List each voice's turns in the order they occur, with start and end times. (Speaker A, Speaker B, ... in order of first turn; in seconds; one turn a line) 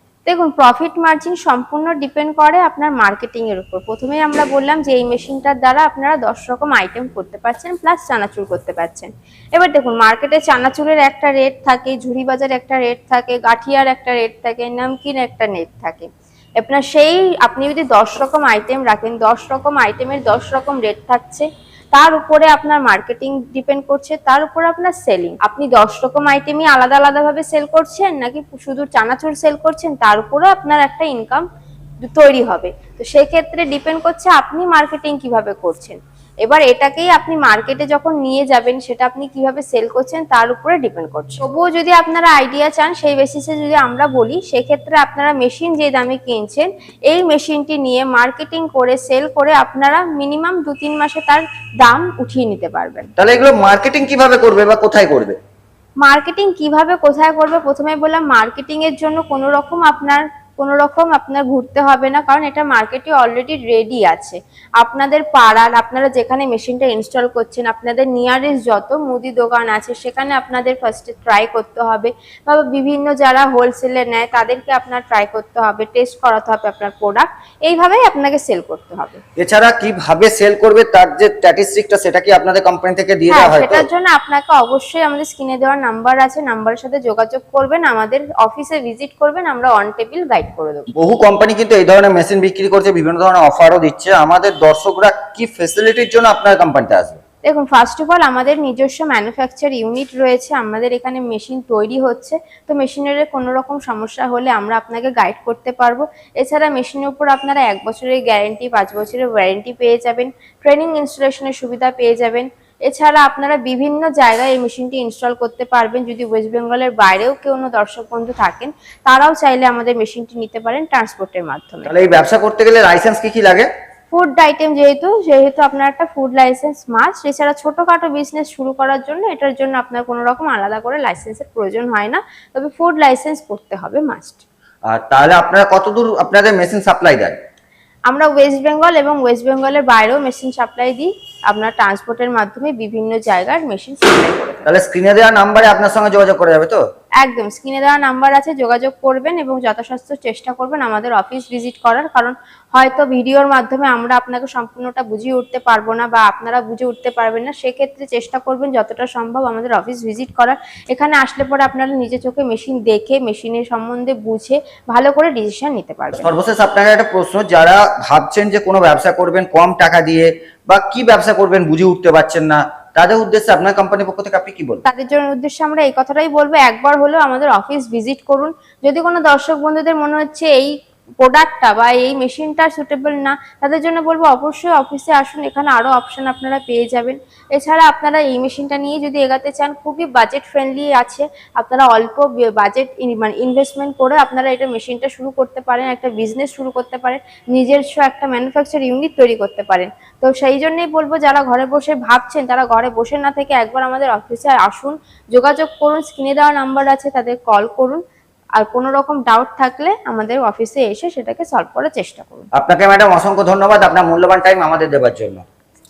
Speaker A: 0.3-31.4
Speaker A: 32.0-53.1
Speaker B: 53.2-55.4
Speaker A: 56.0-79.2
Speaker B: 79.4-83.9
Speaker A: 83.3-90.9
Speaker B: 91.0-97.2
Speaker A: 97.4-121.9
Speaker B: 121.9-123.7
Speaker A: 124.1-134.4
Speaker B: 134.9-137.4
Speaker A: 138.1-144.7
Speaker B: 144.7-146.8
Speaker A: 147.2-166.3
Speaker B: 166.2-174.8
Speaker A: 174.8-208.0
Speaker A: 208.6-212.5
Speaker B: 212.6-215.4